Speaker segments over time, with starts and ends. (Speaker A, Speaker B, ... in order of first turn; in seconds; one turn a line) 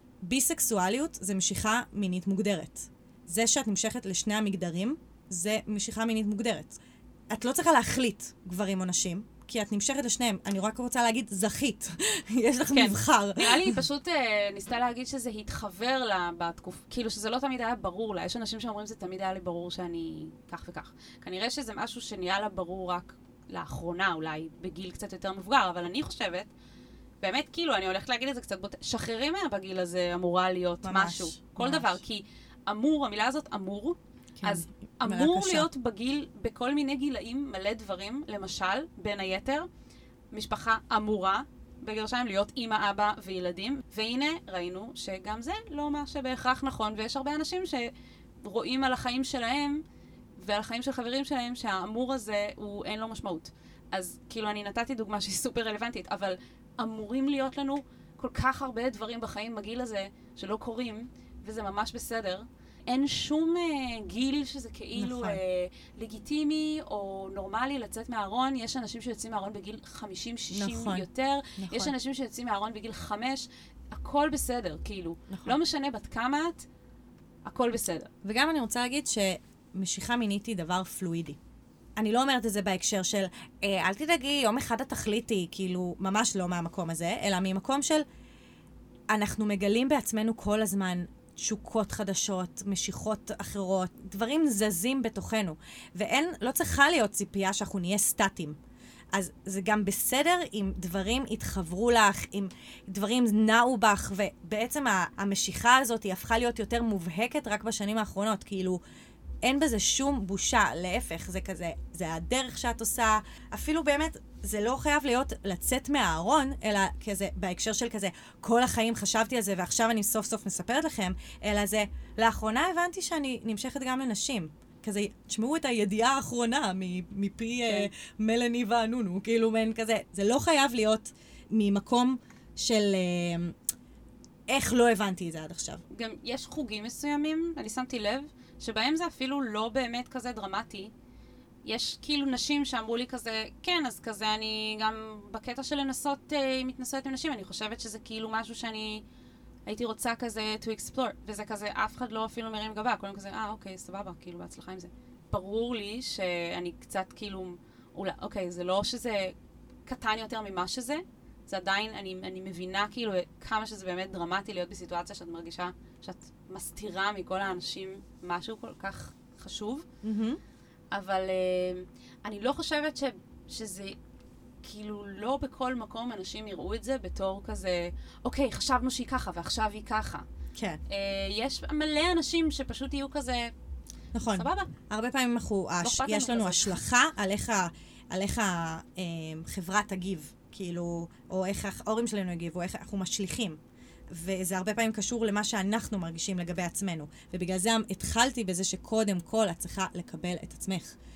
Speaker A: 0.2-6.8
Speaker A: 7.3-13.8
Speaker B: 12.7-26.5
Speaker B: 27.2-39.7
Speaker A: 30.8-32.0
Speaker A: 34.4-35.7
Speaker B: 40.3-47.9
Speaker B: 48.4-49.8
Speaker B: 50.4-76.7
Speaker A: 64.9-65.4
Speaker A: 70.5-71.9
Speaker A: 75.3-75.5
Speaker B: 77.5-78.1
Speaker A: 78.2-81.4
Speaker A: 82.0-88.0
Speaker A: 89.1-98.5
Speaker A: 99.1-108.8
Speaker A: 109.4-133.6
Speaker A: 134.5-135.8
Speaker B: 135.9-140.9
Speaker B: 141.6-149.0
Speaker B: 149.7-159.3
Speaker B: 159.8-169.8
Speaker A: 170.0-170.4
Speaker B: 170.9-174.0
Speaker B: 174.6-180.2
Speaker A: 180.6-180.8
Speaker B: 180.9-183.5
Speaker A: 184.1-193.6
Speaker B: 184.3-184.7
Speaker B: 185.8-186.8
Speaker A: 194.1-201.0